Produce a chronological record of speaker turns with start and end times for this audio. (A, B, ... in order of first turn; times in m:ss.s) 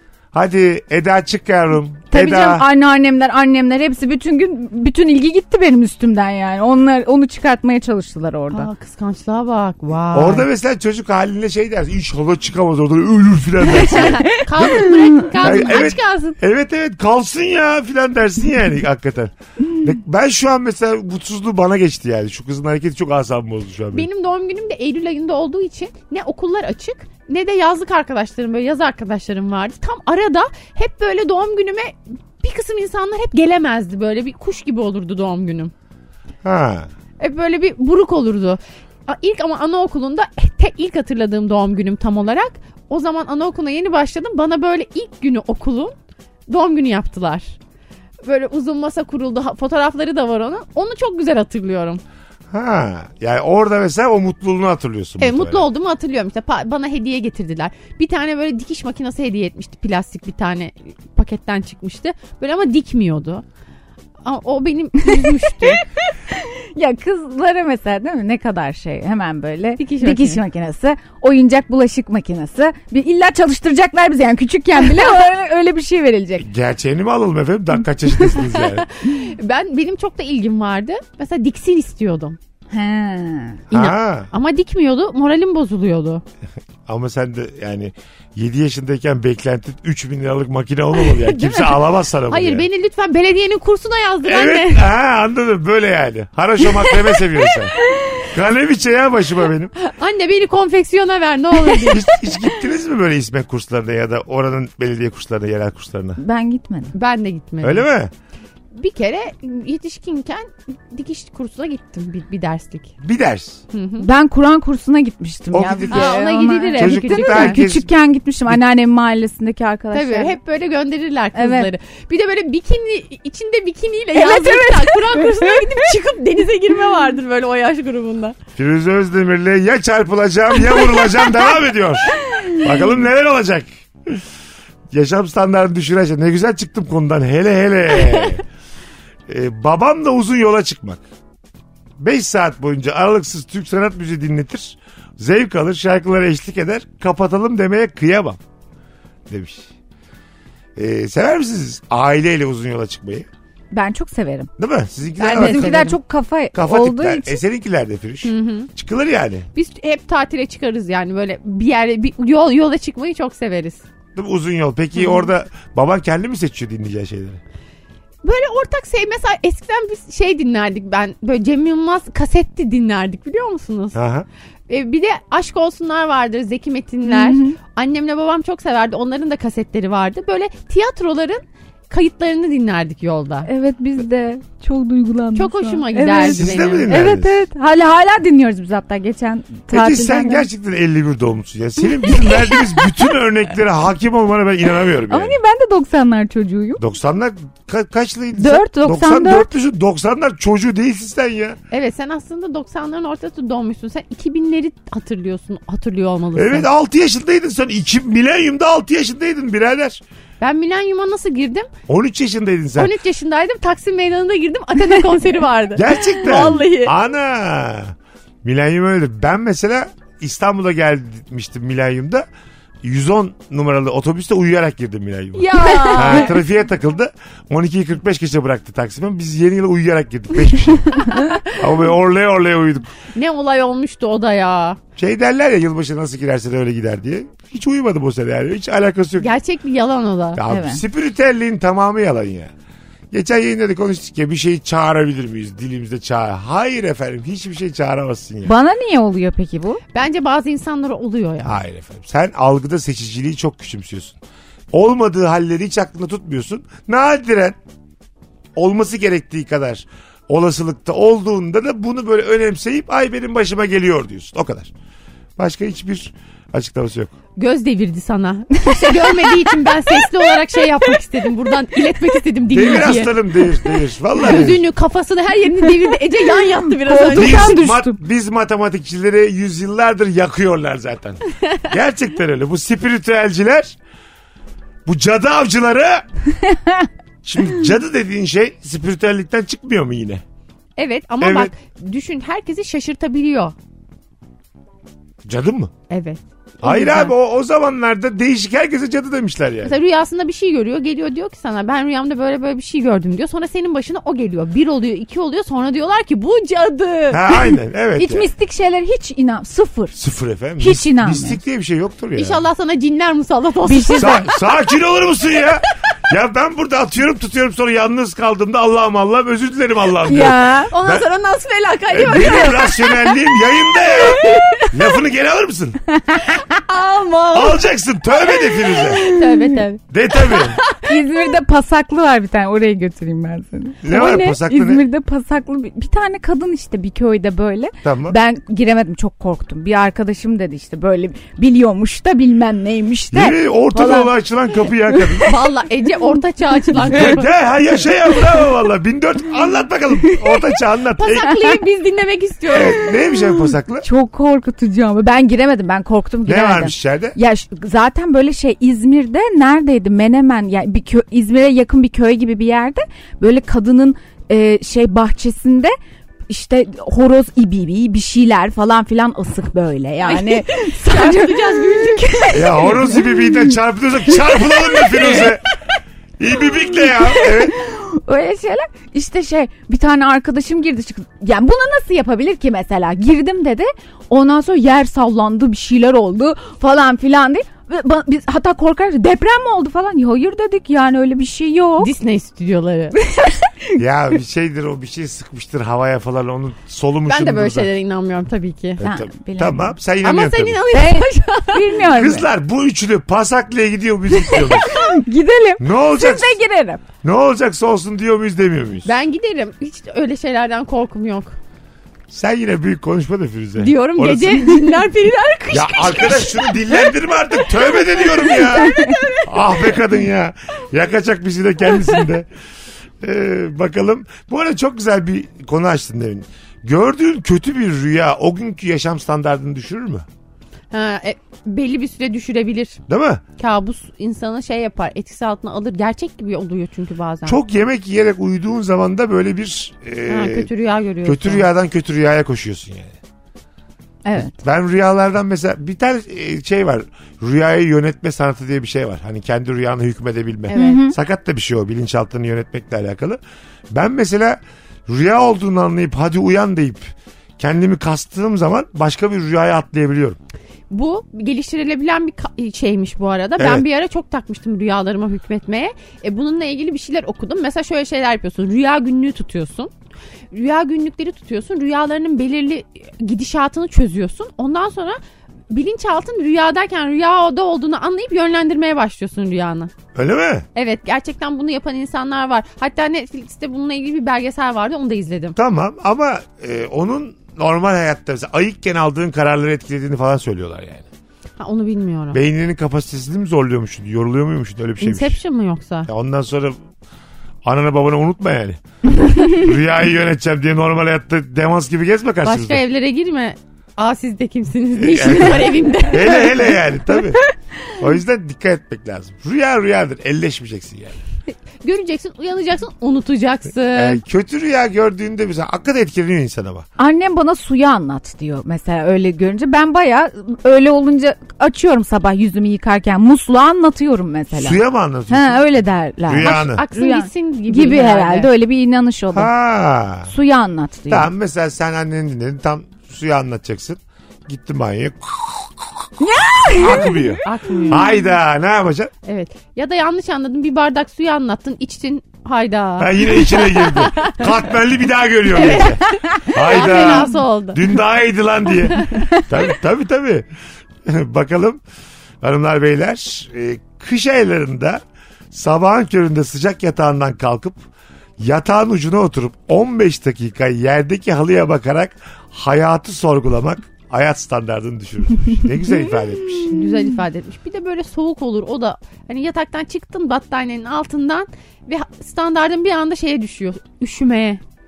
0:00.3-0:02.6 A
0:02.1-0:08.7 B
0:08.5-0:10.4 C
0:10.1-0:24.1 A
0:13.8-0:16.4 C
0:14.0-0:15.2 B
0:23.9-0:35.7 C
0:36.4-0:36.9 A
0:37.2-0:45.9 C
0:46.5-0:47.6 C
0:48.2-0:52.0 C
0:52.5-0:55.6 A
0:55.2-1:03.4 C
1:04.2-1:05.8 C
1:05.4-1:16.5 B
1:09.8-1:10.4 C
1:16.4-1:18.9 A
1:18.2-1:22.4 C
1:22.7-1:23.6 B
1:23.7-1:26.2 C
1:23.7-1:24.3 A
1:26.9-1:32.6 A
1:31.0-1:34.9 C
1:34.2-1:39.7 A
1:39.8-1:42.1 C
1:41.9-1:46.2 A
1:46.2-1:46.9 B
1:46.9-1:47.8 C
1:47.6-1:48.1 A
1:48.7-1:52.9 C
1:53.0-1:53.6 A
1:53.7-1:54.1 C
1:54.0-2:00.4 B
1:55.5-1:56.2 A
1:55.9-1:57.6 C
1:56.8-1:57.9 A
1:59.9-2:08.4 C
2:01.3-2:01.7 B
2:04.1-2:05.7 B
2:08.6-2:14.2 A
2:14.9-2:18.4 A
2:17.9-2:18.3 C
2:19.3-2:21.0 A
2:22.0-2:28.4 A
2:29.3-2:29.7 A
2:30.8-2:33.3 A
2:33.7-2:34.5 B
2:34.6-2:35.8 A
2:35.2-2:37.4 B
2:35.2-2:36.0 C
2:36.5-2:39.5 A
2:38.2-2:38.7 C
2:39.5-2:43.8 C
2:44.1-2:47.4 A
2:45.0-2:45.2 C
2:48.2-2:54.0 C
2:53.9-2:54.3 A
2:54.7-3:03.5 C
2:57.0-2:57.6 B
3:03.4-3:10.4 B
3:05.3-3:06.9 C
3:06.2-3:07.4 A
3:09.7-3:15.4 A
3:15.1-3:16.8 B
3:16.8-3:21.6 A
3:18.4-3:19.5 B
3:21.7-3:26.7 C
3:26.4-3:30.0 A
3:30.4-3:31.7 C
3:31.9-3:32.9 A
3:32.8-3:36.9 C
3:35.8-3:42.2 A
3:42.8-3:52.9 A
3:45.3-3:46.4 C
3:45.6-3:46.2 B
3:51.0-3:51.5 C
3:53.1-3:54.8 C
3:55.0-3:59.3 A
3:59.2-4:00.4 C
4:00.3-4:02.5 A
4:00.5-4:00.8 B
4:03.1-4:08.5 A
4:08.4-4:09.8 B
4:09.9-4:11.6 C
4:11.4-4:14.2 A
4:14.7-4:17.6 A
4:18.6-4:24.7 A
4:25.4-4:27.1 A
4:27.4-4:33.2 C
4:28.7-4:29.3 B
4:32.5-4:34.6 A
4:34.2-4:37.6 C
4:36.7-4:38.0 B
4:37.1-4:43.8 A
4:44.8-4:46.0 A
4:46.5-4:46.9 B
4:47.2-4:50.2 A
4:50.8-4:53.5 C
4:51.2-4:51.5 A
4:55.2-4:55.7 A
4:55.9-4:57.1 C
4:56.6-4:59.8 A
4:59.6-5:07.5 C
5:07.1-5:08.3 A
5:08.0-5:10.0 B
5:09.9-5:12.4 A
5:10.6-5:11.4 B
5:12.2-5:14.4 C
5:13.6-5:14.3 B
5:14.0-5:21.0 A
5:20.0-5:20.7 B
5:20.7-5:24.8 C
5:21.9-5:25.8 A
5:25.9-5:26.4 B
5:26.5-5:27.6 C
5:27.3-5:29.0 A
5:28.4-5:31.0 C
5:29.0-5:29.6 B
5:29.9-5:30.6 A
5:30.8-5:44.1 B
5:33.8-5:34.8 A
5:37.8-5:38.1 A
5:43.1-5:45.3 A
5:45.2-5:47.3 C
5:46.8-5:51.3 A
5:51.0-5:52.9 C
5:52.5-5:53.8 A
5:53.8-6:05.7 B
5:56.2-5:57.2 A
6:06.3-6:13.2 B
6:10.0-6:13.0 C
6:12.3-6:15.4 A
6:14.8-6:15.3 C
6:16.2-6:17.5 A
6:16.9-6:31.9 B
6:31.8-6:33.0 C
6:33.0-6:33.5 B
6:33.8-6:37.7 A
6:37.1-6:38.8 C
6:38.8-6:40.6 A
6:38.8-6:39.8 B
6:40.0-6:41.8 C
6:40.7-6:42.2 B
6:41.9-6:44.9 A
6:44.4-6:44.8 C
6:44.6-6:46.8 B
6:45.6-6:46.3 A
6:47.0-6:48.9 A
6:48.8-6:51.4 C
6:52.1-6:54.4 A
6:53.6-6:59.7 C
6:55.5-7:02.3 A
7:03.0-7:10.0 A
7:10.7-7:12.8 C
7:12.9-7:13.2 A
7:13.4-7:17.4 C
7:17.3-7:20.5 A
7:20.1-7:21.5 C
7:21.0-7:22.9 A
7:24.0-7:24.3 B
7:24.2-7:33.2 A
7:30.5-7:30.8 C
7:30.5-7:31.0 B
7:33.7-7:40.2 A
7:40.7-7:49.7 C
7:43.4-7:43.6 A
7:50.3-7:55.0 C
7:55.5-7:59.7 C
7:59.9-8:00.5 A
8:00.5-8:05.4 C
8:05.4-8:10.9 A
8:11.4-8:12.2 C
8:12.1-8:15.2 A
8:14.8-8:15.9 C
8:15.8-8:16.6 A
8:17.4-8:18.6 A
8:19.2-8:22.6 A
8:22.2-8:26.6 C
8:24.8-8:27.2 A
8:27.8-8:31.0 A
8:31.6-8:34.0 C
8:33.7-8:36.6 A
8:36.8-8:49.3 B
8:44.3-8:45.5 A
8:46.1-8:46.6 A
8:46.2-8:48.3 C
8:49.1-8:50.1 A
8:50.1-8:51.1 B
8:50.9-8:55.9 A
8:56.0-8:57.2 B
8:56.5-8:58.9 A
8:56.6-8:58.0 C
8:59.0-9:04.3 C
9:02.8-9:10.2 A
9:05.3-9:07.7 C
9:06.1-9:07.0 B
9:08.7-9:09.1 C
9:10.8-9:11.6 A
9:12.2-9:17.6 A
9:18.2-9:26.6 A
9:26.4-9:34.4 C